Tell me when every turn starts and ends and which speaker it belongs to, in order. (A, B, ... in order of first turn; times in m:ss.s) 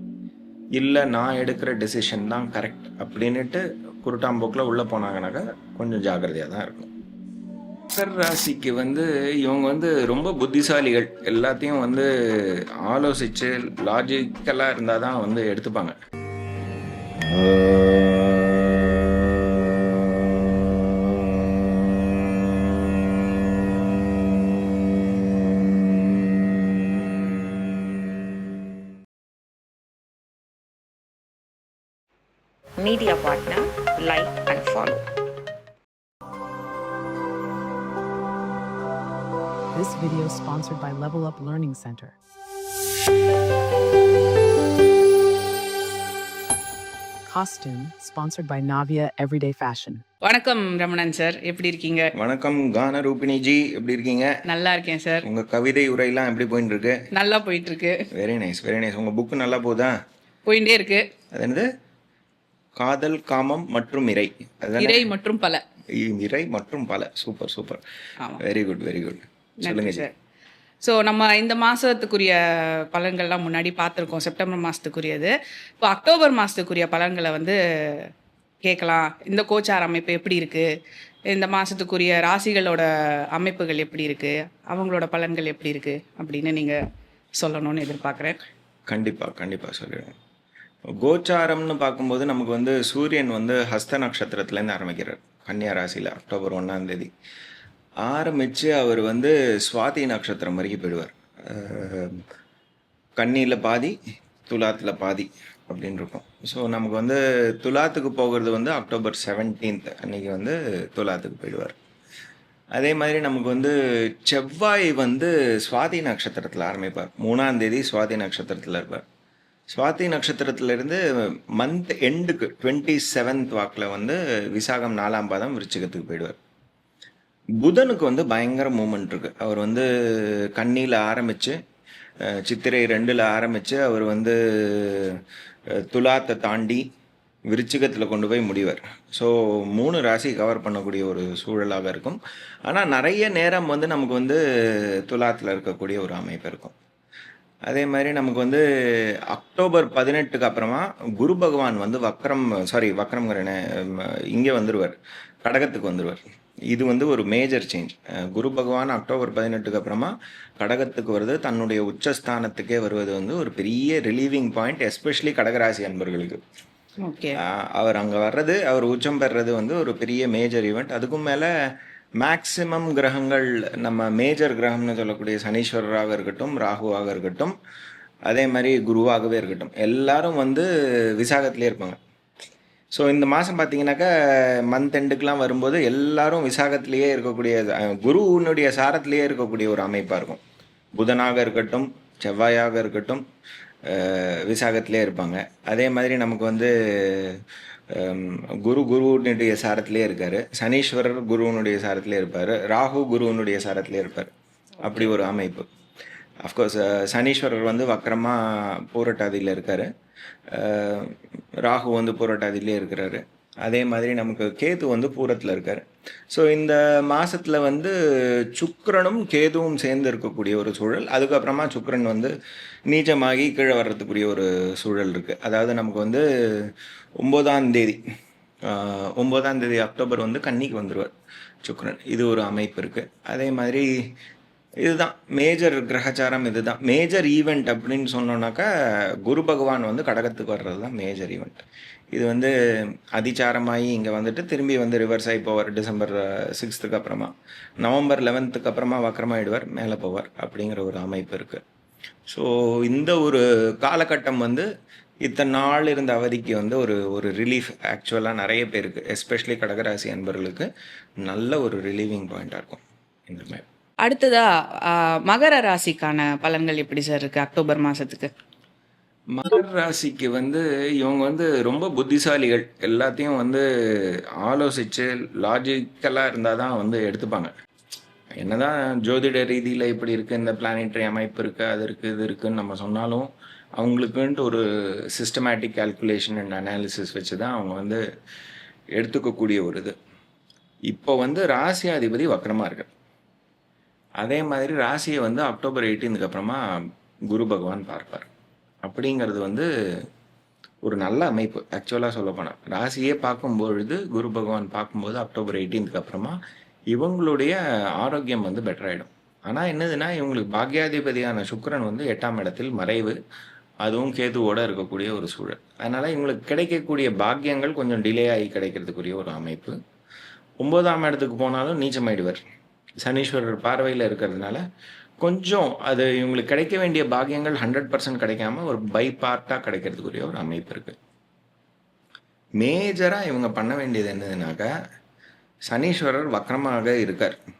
0:00.8-0:06.9 A
0:07.9-0:15.9 A
0:32.8-0:35.0 B
0:39.7-0:42.2 C
0:47.2-0:50.0 C
0:50.2-0:52.1 D
0:52.2-0:54.3 A
0:54.4-0:55.2 D
0:55.2-0:57.0 A
0:57.1-0:58.1 D
0:58.1-0:59.9 A
1:00.4-1:01.0 D
1:01.3-1:01.7 A
1:02.8-1:05.1 A
1:04.8-1:05.6 D
1:06.0-1:07.8 A
1:08.4-1:10.1 A
1:09.6-1:10.1 D
1:10.8-1:18.1 D
1:18.6-1:20.7 D
1:21.3-1:26.8 D
1:27.4-1:28.4 D
1:28.9-1:30.1 A
1:31.0-1:37.1 A
1:38.0-1:42.2 A
1:43.2-1:44.0 A
1:44.5-1:51.7 A
1:52.7-1:59.0 A
1:59.7-2:06.4 A
2:07.6-2:11.6 A
2:12.3-2:15.2 A
2:15.8-2:16.8 A
2:17.5-2:24.4 A
2:25.0-2:26.8 A
2:27.7-2:28.6 A
2:29.3-2:36.2 A
2:36.7-2:46.4 A
2:47.0-2:47.4 D
2:47.4-2:51.5 A
2:52.2-2:57.5 A
2:58.3-3:02.0 A
3:02.9-3:10.4 A
3:11.0-3:13.2 A
3:13.9-3:17.4 A
3:17.9-3:24.3 A
3:24.8-3:25.6 A
3:26.4-3:29.9 A
3:30.5-3:37.9 A
3:38.5-3:42.3 A
3:42.9-3:48.0 A
3:48.6-3:51.1 A
3:51.6-3:53.8 A
3:54.8-3:58.7 A
3:59.2-4:02.5 A
4:03.1-4:11.6 A
4:12.3-4:14.6 A
4:15.2-4:20.7 A
4:21.2-4:23.6 A
4:24.0-4:28.3 D
4:29.3-4:37.5 A
4:38.4-4:48.0 A
4:49.0-4:49.9 A
4:50.9-4:52.9 A
4:54.2-4:56.6 A
4:57.3-4:58.3 A
4:58.8-4:59.7 A
5:00.8-5:06.4 A
5:06.9-5:13.1 A
5:13.8-5:19.8 A
5:20.6-5:22.4 A
5:23.0-5:24.6 A
5:25.2-5:31.0 A
5:32.6-5:34.7 A
5:35.7-5:37.4 A